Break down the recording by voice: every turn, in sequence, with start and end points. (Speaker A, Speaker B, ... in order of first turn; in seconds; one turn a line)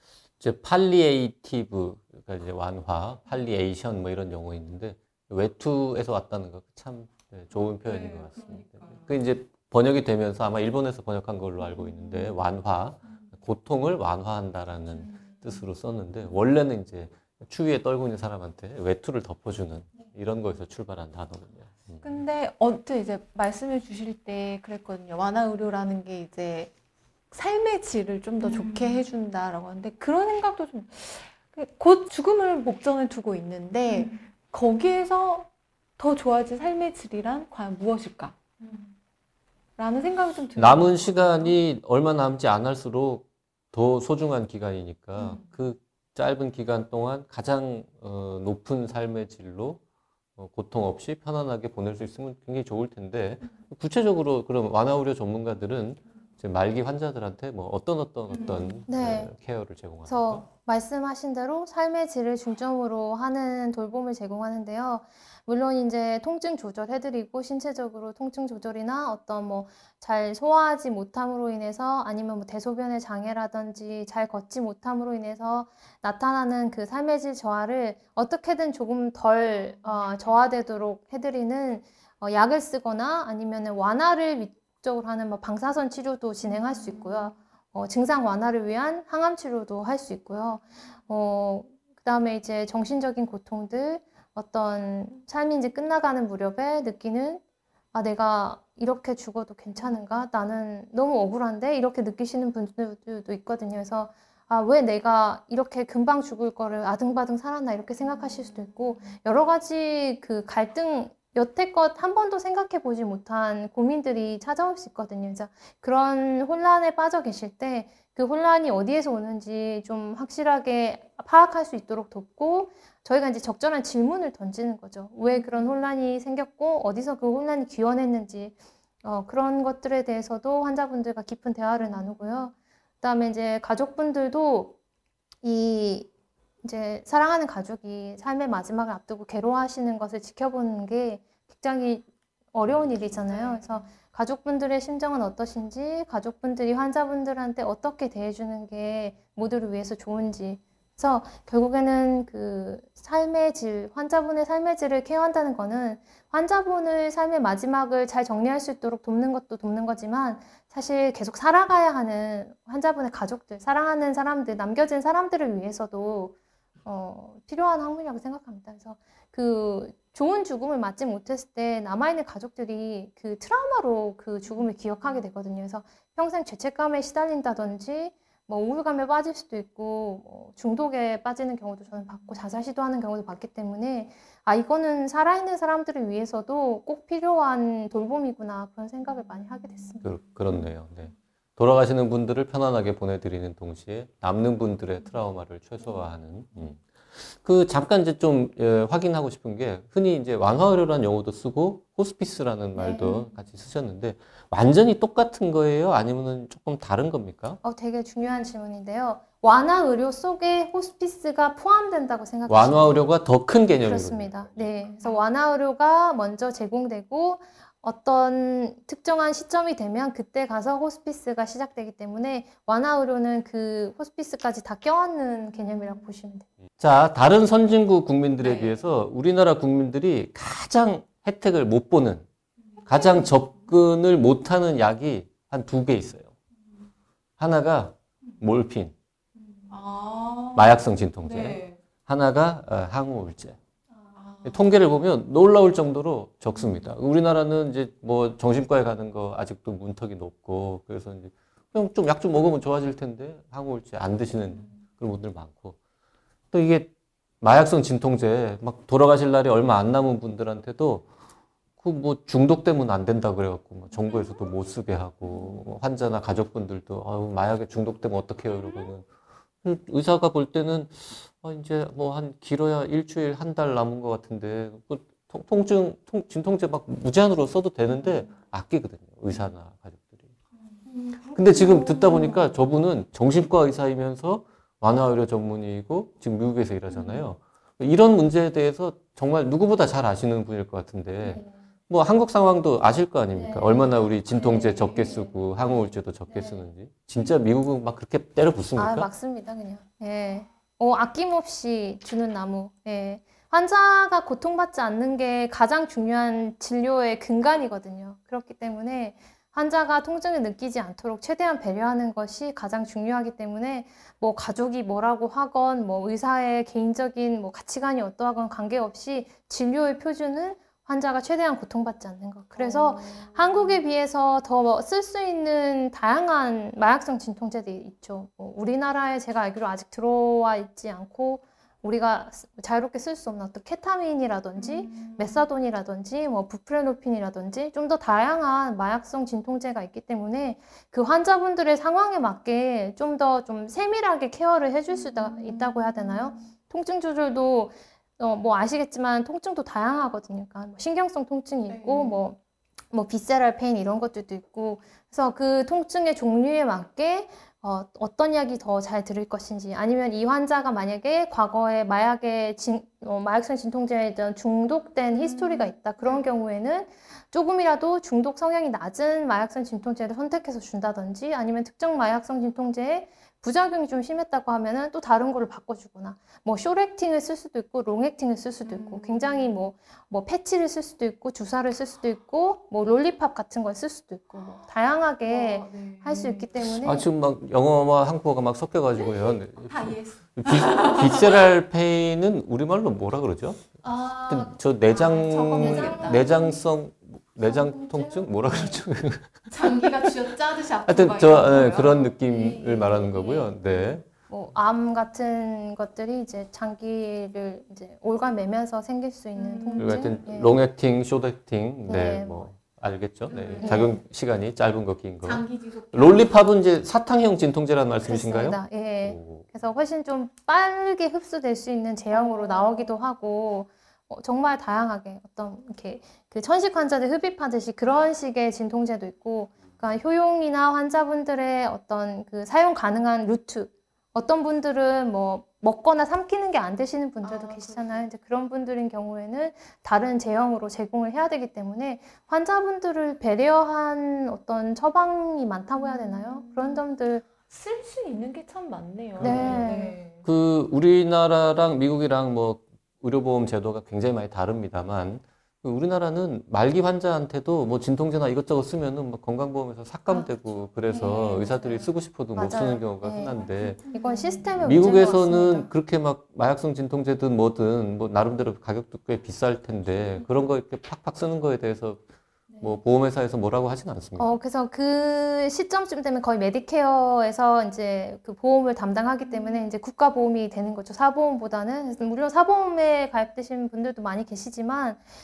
Speaker A: 0.4-22.1
Speaker B: 7.9-9.1
Speaker B: 22.0-26.7
Speaker B: 27.3-38.8
Speaker B: 39.8-41.5
Speaker A: 40.5-49.8
Speaker A: 50.4-60.5
Speaker B: 58.4-58.8
Speaker C: 58.9-59.3
Speaker C: 60.1-97.4
Speaker C: 97.9-134.7
Speaker B: 125.3-125.7
Speaker B: 131.8-132.3
Speaker C: 135.4-136.1
Speaker C: 136.6-190.0
Speaker A: 190.0-207.6
Speaker C: 202.8-203.2
Speaker C: 207.6-213.0
Speaker A: 212.5-214.7
Speaker C: 213.8-226.4
Speaker A: 226.8-232.2
Speaker B: 228.4-228.8
Speaker B: 232.7-233.5
Speaker A: 232.8-236.3
Speaker A: 237.4-238.9
Speaker B: 239.7-241.8
Speaker A: 240.5-243.6
Speaker B: 244.1-244.6
Speaker A: 244.4-255.8
Speaker A: 256.5-261.1
Speaker A: 261.8-269.1
Speaker B: 265.3-265.6
Speaker A: 269.6-280.3
Speaker B: 280.9-282.5
Speaker A: 281.3-299.1
Speaker B: 286.9-287.2
Speaker C: 293.3-293.9
Speaker C: 294.4-295.2
Speaker C: 298.8-352.4
Speaker B: 322.6-323.8
Speaker B: 334.6-335.4
Speaker B: 344.9-346.4
Speaker B: 351.7-352.2
Speaker C: 352.9-387.0
Speaker B: 365.1-366.2
Speaker B: 378.6-379.5
Speaker B: 385.3-386.6
Speaker A: 386.6-399.8
Speaker B: 389.0-391.5
Speaker B: 393.8-396.6
Speaker C: 395.1-396.3
Speaker C: 397.5-398.8
Speaker B: 399.5-403.9
Speaker A: 400.9-404.1
Speaker C: 404.3-410.5
Speaker B: 409.4-410.2
Speaker A: 409.8-419.5
Speaker C: 411.9-412.5
Speaker B: 413.3-413.9
Speaker C: 413.6-414.0
Speaker B: 415.2-416.3
Speaker C: 418.0-447.2
Speaker B: 422.1-422.8
Speaker B: 437.2-438.0
Speaker B: 445.8-446.8
Speaker B: 447.5-450.2
Speaker A: 449.1-449.7
Speaker C: 449.2-450.0
Speaker A: 450.2-463.8
Speaker B: 460.9-461.8
Speaker C: 462.3-465.7
Speaker B: 463.8-464.5
Speaker A: 464.6-472.0
Speaker A: 472.6-474.3
Speaker C: 474.2-485.0
Speaker B: 479.2-479.7